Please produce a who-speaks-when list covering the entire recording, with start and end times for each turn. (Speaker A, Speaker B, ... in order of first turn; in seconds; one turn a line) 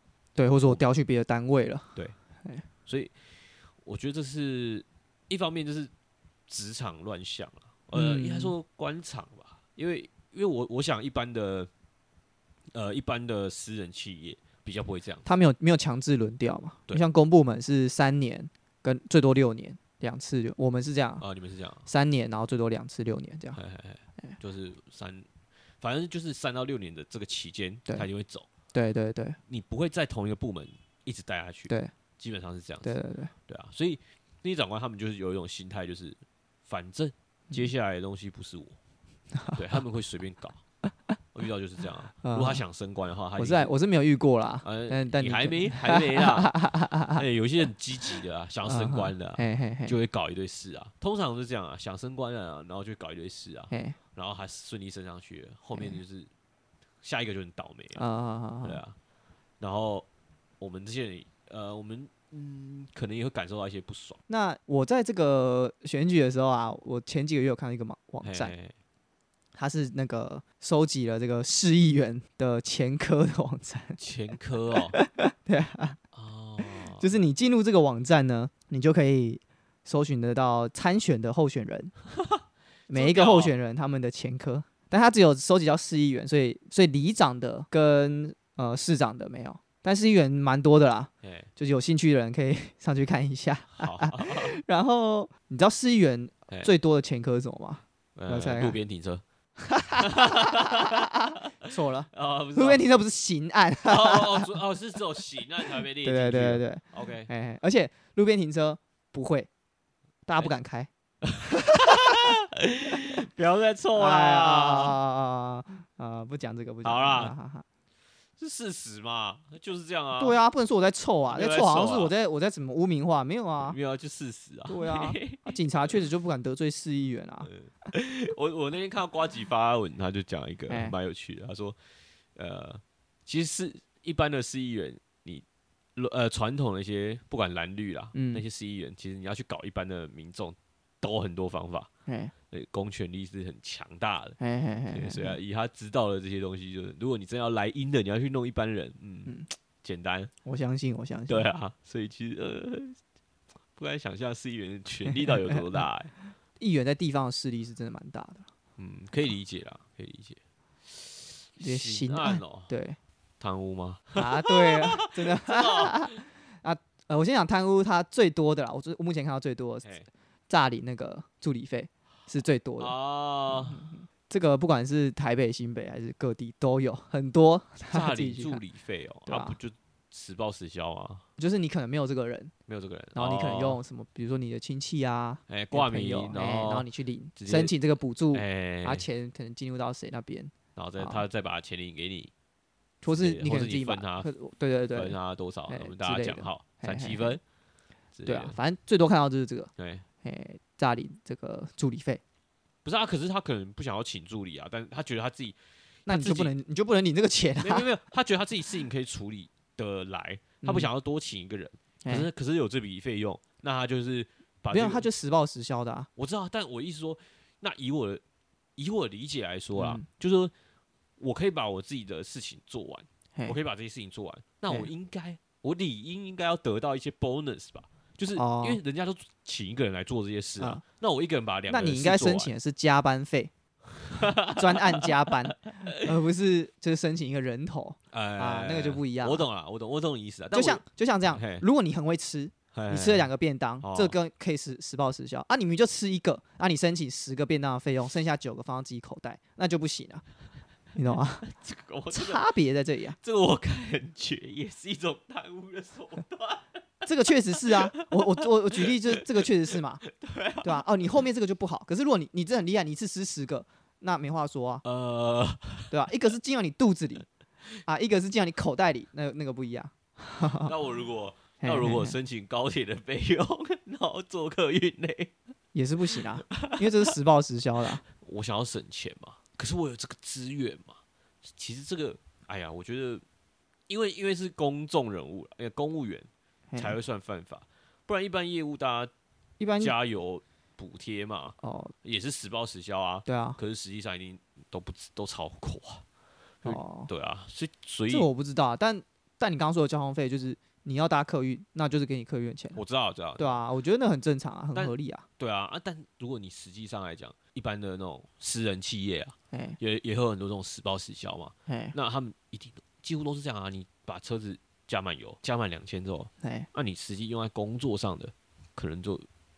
Speaker A: 0.4-2.6
Speaker B: 2.9-5.9
Speaker B: 6.5-11.7
Speaker A: 7.9-8.6
Speaker B: 12.7-15.3
Speaker A: 15.2-21.2
Speaker B: 21.2-21.9
Speaker A: 21.9-23.6
Speaker B: 23.6-25.3
Speaker B: 25.8-28.5
Speaker A: 28.7-29.4
Speaker B: 29.5-33.0
Speaker A: 32.8-33.3
Speaker B: 33.5-38.8
Speaker B: 39.5-40.6
Speaker B: 41.3-43.7
Speaker A: 42.2-42.6
Speaker A: 43.4-47.2
Speaker B: 44.6-56.3
Speaker A: 48.6-50.0
Speaker A: 53.7-54.0
Speaker B: 57.0-58.0
Speaker A: 58.0-58.8
Speaker B: 58.6-59.0
Speaker B: 59.6-60.1
Speaker B: 60.6-64.2
Speaker A: 64.3-68.5
Speaker B: 68.2-68.7
Speaker A: 69.5-74.0
Speaker B: 74.0-75.0
Speaker A: 75.0-76.0
Speaker B: 76.1-77.1
Speaker A: 76.6-82.0
Speaker B: 82.2-83.5
Speaker A: 82.9-98.8
Speaker B: 91.2-91.5
Speaker B: 93.7-94.5
Speaker B: 98.2-99.2
Speaker A: 99.6-104.5
Speaker B: 100.0-102.8
Speaker B: 103.8-107.3
Speaker A: 106.0-109.5
Speaker A: 110.3-110.9
Speaker B: 111.2-115.0
Speaker A: 111.7-112.1
Speaker A: 114.0-117.7
Speaker B: 116.8-117.3
Speaker B: 118.4-120.4
Speaker A: 120.2-123.8
Speaker B: 121.3-122.1
Speaker B: 123.6-126.0
Speaker A: 124.7-127.5
Speaker B: 127.4-131.8
Speaker A: 130.7-130.9
Speaker B: 132.3-135.4
Speaker B: 135.9-141.9
Speaker A: 138.1-138.4
Speaker A: 142.1-142.3
Speaker B: 142.5-150.3
Speaker A: 144.4-145.4
Speaker A: 150.4-151.5
Speaker B: 151.3-153.0
Speaker B: 153.7-156.1
Speaker A: 155.1-155.6
Speaker A: 156.6-158.5
Speaker B: 158.8-162.7
Speaker A: 161.6-163.0
Speaker B: 163.4-166.2
Speaker A: 164.2-169.9
Speaker B: 169.8-170.1
Speaker A: 170.5-172.9
Speaker B: 172.8-173.9
Speaker A: 173.5-178.6
Speaker B: 177.9-181.2
Speaker A: 179.3-179.6
Speaker A: 181.4-182.5
Speaker B: 182.7-183.8
Speaker A: 183.2-191.2
Speaker B: 185.5-187.7
Speaker B: 188.3-189.1
Speaker B: 190.7-192.3
Speaker A: 193.0-195.2
Speaker B: 193.1-194.3
Speaker B: 194.9-197.4
Speaker A: 195.7-197.4
Speaker B: 198.2-198.6
Speaker A: 198.3-199.7
Speaker B: 199.8-200.1
Speaker A: 200.2-202.2
Speaker B: 202.8-206.6
Speaker A: 206.1-207.9
Speaker B: 207.6-215.1
Speaker A: 210.6-210.9
Speaker A: 212.0-212.3
Speaker A: 214.7-216.1
Speaker B: 216.2-218.2
Speaker B: 218.8-220.5
Speaker A: 219.8-220.1
Speaker B: 221.2-232.5
Speaker A: 228.4-228.8
Speaker A: 231.7-233.5
Speaker B: 234.0-236.1
Speaker A: 234.5-239.5
Speaker B: 238.1-241.7
Speaker A: 240.5-250.2
Speaker B: 242.7-243.3
Speaker B: 243.8-244.2
Speaker A: 250.9-251.4
Speaker B: 251.4-252.5
Speaker A: 252.1-253.2
Speaker B: 253.2-256.8
Speaker A: 257.0-260.1
Speaker B: 257.5-259.4
Speaker B: 260.1-260.8
Speaker A: 260.6-264.8
Speaker B: 264.8-265.9
Speaker A: 265.9-267.3
Speaker A: 267.8-270.7
Speaker B: 270.4-275.3
Speaker A: 271.6-272.1
Speaker A: 275.7-278.0
Speaker B: 276.5-276.9
Speaker B: 278.1-283.2
Speaker B: 283.9-289.1
Speaker A: 289.6-289.9
Speaker B: 289.8-296.1
Speaker A: 291.6-291.9
Speaker A: 293.3-293.6
Speaker B: 296.6-298.3
Speaker A: 296.6-297.1
Speaker A: 298.1-302.8
Speaker B: 302.7-303.6
Speaker A: 303.4-305.2
Speaker B: 304.7-319.3
Speaker A: 309.5-309.8
Speaker A: 311.7-311.9
Speaker A: 316.4-316.7